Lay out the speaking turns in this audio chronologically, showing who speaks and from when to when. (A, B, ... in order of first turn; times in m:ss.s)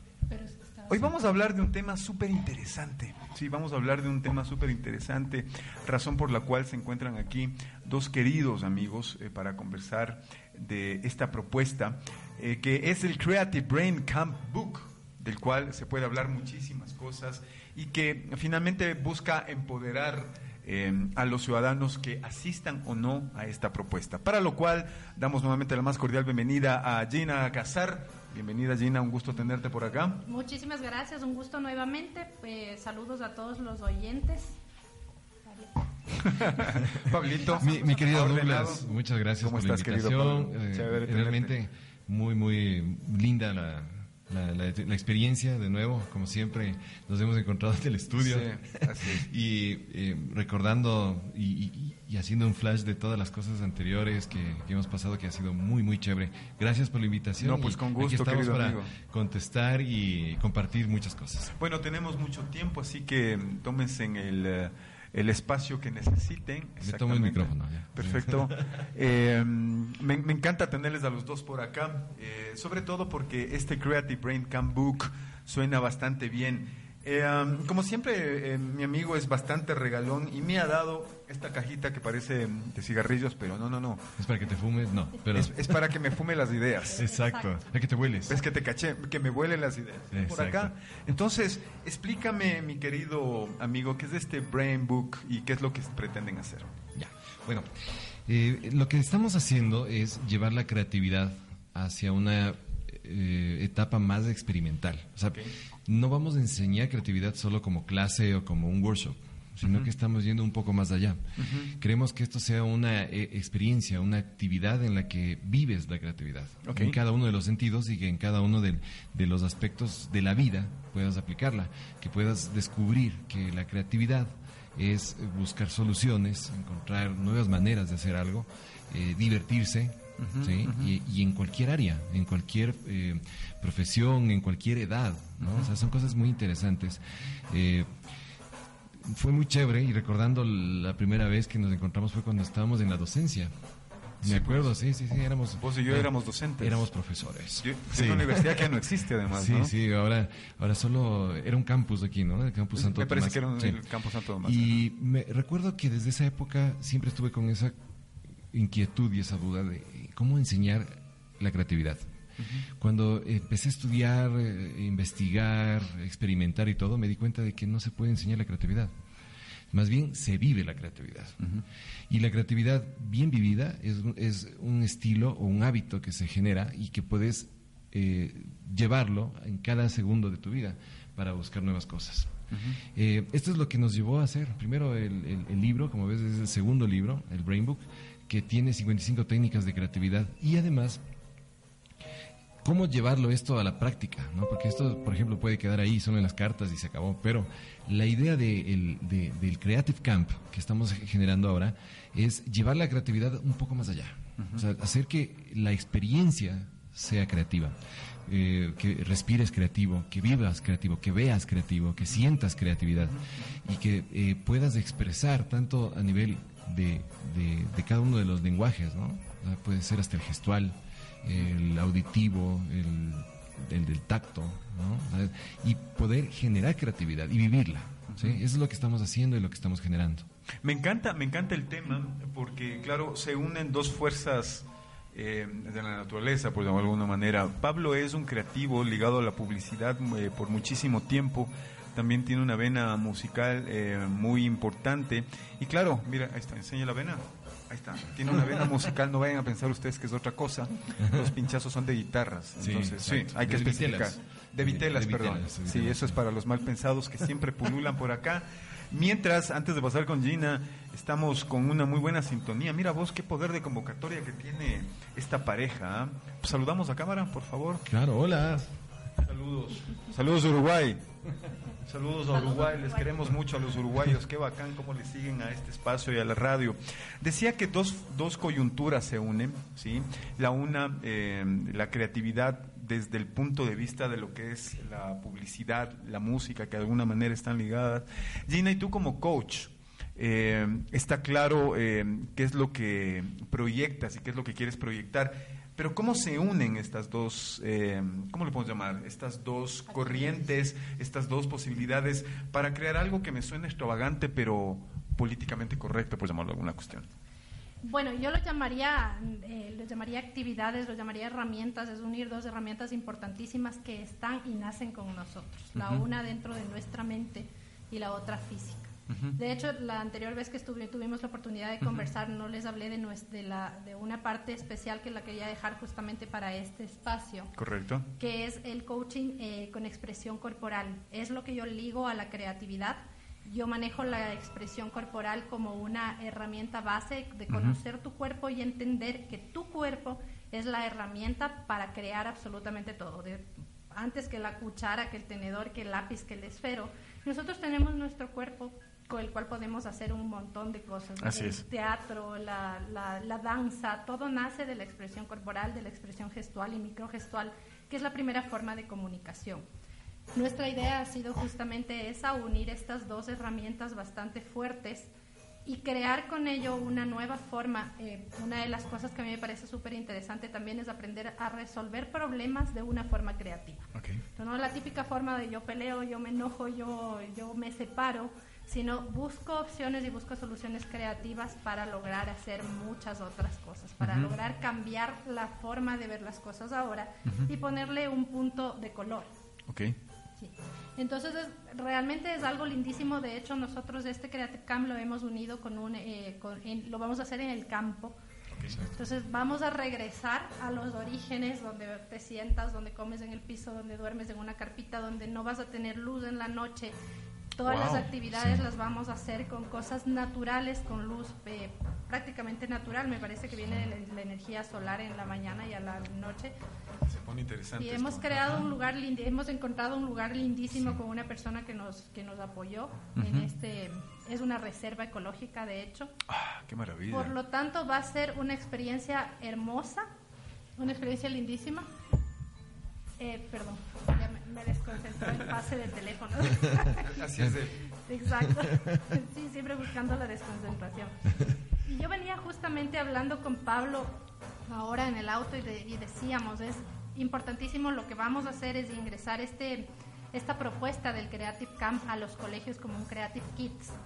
0:00.3-0:01.1 A
0:00.9-0:30.2 B
0:30.2-0:34.6 A
0:35.5-0:35.8 A
0:36.2-0:38.8 B
0:37.4-0:38.1 A
0:37.4-1:01.5 C
0:39.4-0:41.5 B
0:48.2-0:49.3 B
0:57.4-0:58.9 B
1:01.6-1:24.0 B
1:06.8-1:08.6 C
1:24.2-1:25.9 C
1:25.3-1:27.0 B
1:26.9-1:27.6 A
1:26.9-1:28.4 C
1:28.3-1:36.7 B
1:30.1-1:30.7 C
1:37.0-1:37.7 C
1:38.3-2:17.9 C
1:49.6-1:49.9 B
1:51.4-1:51.7 B
1:56.6-1:57.0 B
2:10.2-2:11.0 B
2:15.4-2:15.7 B
2:19.1-2:23.5 C
2:24.2-2:28.8 C
2:24.2-2:24.7 B
2:25.6-2:26.9 B
2:27.6-2:29.7 B
2:29.3-2:33.8 C
2:32.8-2:34.8 B
2:34.4-2:37.7 C
2:38.5-2:42.0 C
2:42.4-2:42.6 B
2:42.8-2:48.9 C
2:49.7-2:51.4 C
2:52.1-3:02.3 C
3:02.5-3:02.8 B
3:02.9-3:11.0 C
3:12.6-3:27.8 C
3:24.4-3:24.6 B
3:28.3-3:50.3 C
3:33.0-3:33.5 B
3:48.1-3:48.4 B
3:50.6-4:27.8 B
4:11.0-4:11.3 C
4:12.6-4:16.2 C
4:27.9-4:28.7 C
4:29.2-4:31.0 B
4:31.9-5:07.1 B
4:32.3-4:33.4 A
4:59.9-5:00.6 A
5:07.8-5:27.5 A
5:15.8-5:16.0 B
5:19.1-5:19.4 B
5:21.8-5:22.1 B
5:27.6-5:28.1 B
5:28.2-5:59.6 A
5:37.5-5:37.8 B
5:51.2-5:51.6 B
6:00.3-6:05.1 A
6:05.6-6:29.3 A
6:14.0-6:14.2 B
6:24.0-6:24.4 B
6:29.7-6:30.0 B
6:30.4-6:38.2 A
6:38.5-6:38.8 B
6:38.9-6:47.0 A
6:47.6-6:56.6 A
6:47.6-6:48.1 B
6:48.3-6:48.7 C
6:57.0-6:58.7 B
6:57.8-7:06.1 A
7:03.2-7:03.5 B
7:06.3-7:07.4 B
7:07.1-7:10.1 A
7:10.8-7:11.9 A
7:13.2-7:17.1 A
7:17.1-7:17.7 B
7:18.0-7:21.2 A
7:18.5-7:19.0 C
7:21.9-7:24.2 A
7:24.7-7:34.0 A